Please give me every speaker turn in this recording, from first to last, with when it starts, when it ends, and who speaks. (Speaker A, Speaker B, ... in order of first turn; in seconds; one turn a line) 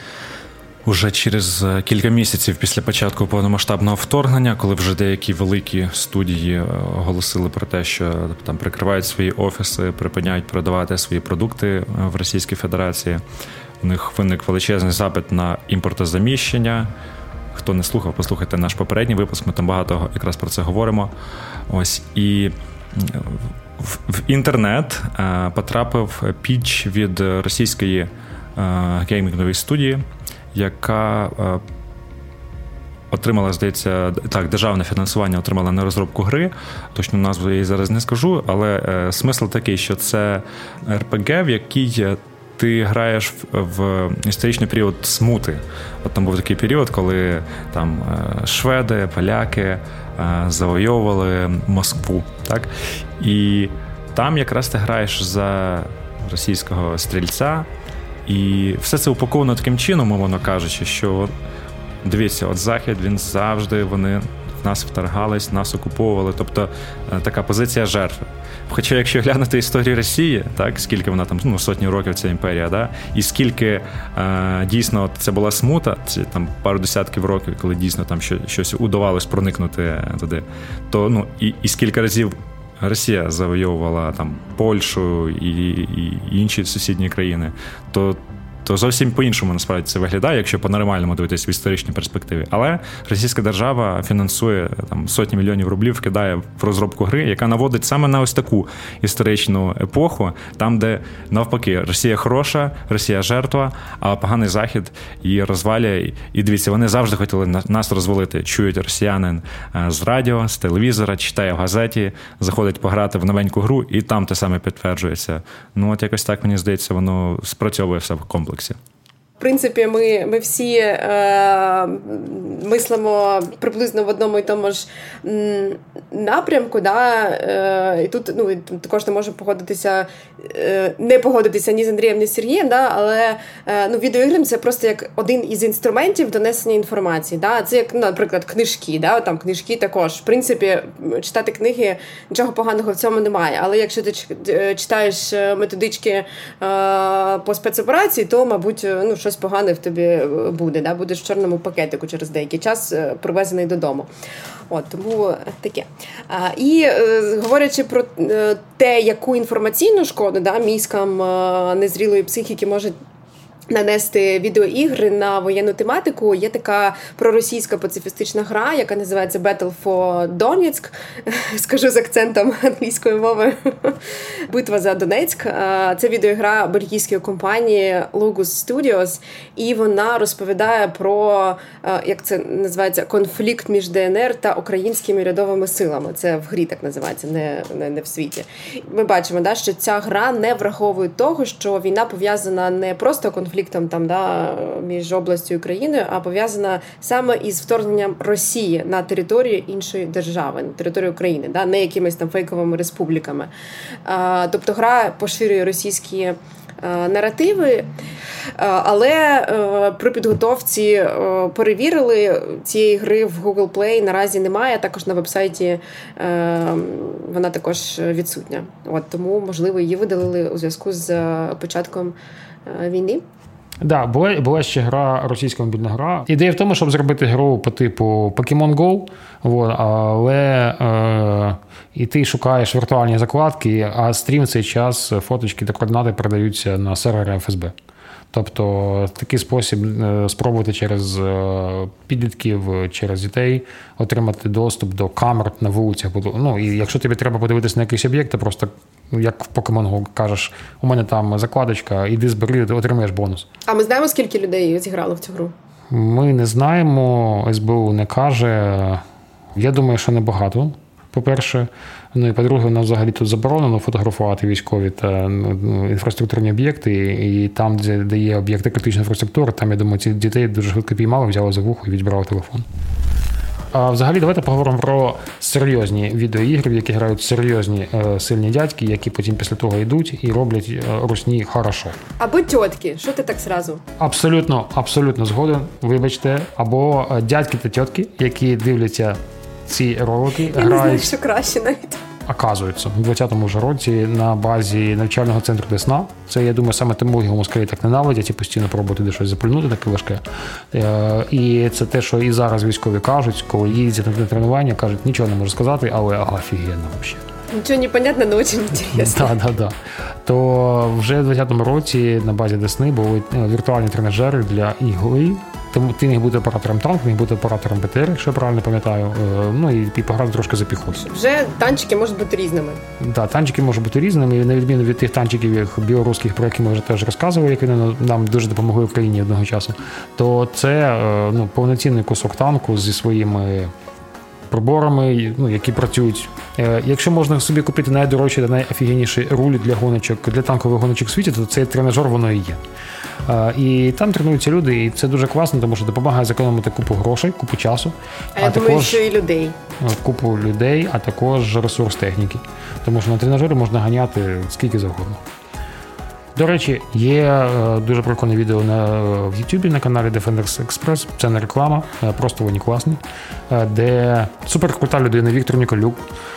Speaker A: 0.8-13.2
Speaker A: 13.8-16.9
Speaker A: 17.5-21.1
Speaker A: 21.7-31.6
Speaker A: 33.1-57.7
Speaker A: 58.2-61.3
Speaker A: 62.0-118.8
Speaker B: 119.4-154.1
Speaker B: 154.7-162.9
Speaker B: 163.7-174.0
Speaker B: 174.5-203.5
Speaker B: 204.1-207.9
Speaker B: 208.6-222.1
Speaker B: 222.7-223.2
Speaker C: 223.8-237.7
Speaker C: 238.3-253.4
Speaker B: 253.7-255.5
Speaker C: 255.9-259.0
Speaker C: 259.6-272.6
Speaker C: 273.7-281.9
Speaker B: 282.2-283.8
Speaker C: 284.0-291.1
Speaker B: 290.5-292.0
Speaker C: 292.3-300.2
Speaker C: 300.7-307.2
Speaker B: 307.5-309.3
Speaker C: 308.9-321.0
Speaker B: 320.9-322.8
Speaker C: 323.0-333.7
Speaker C: 334.5-342.6
Speaker C: 343.2-349.0
Speaker B: 348.4-349.5
Speaker C: 349.8-355.2
Speaker C: 356.4-363.0
Speaker C: 363.5-366.0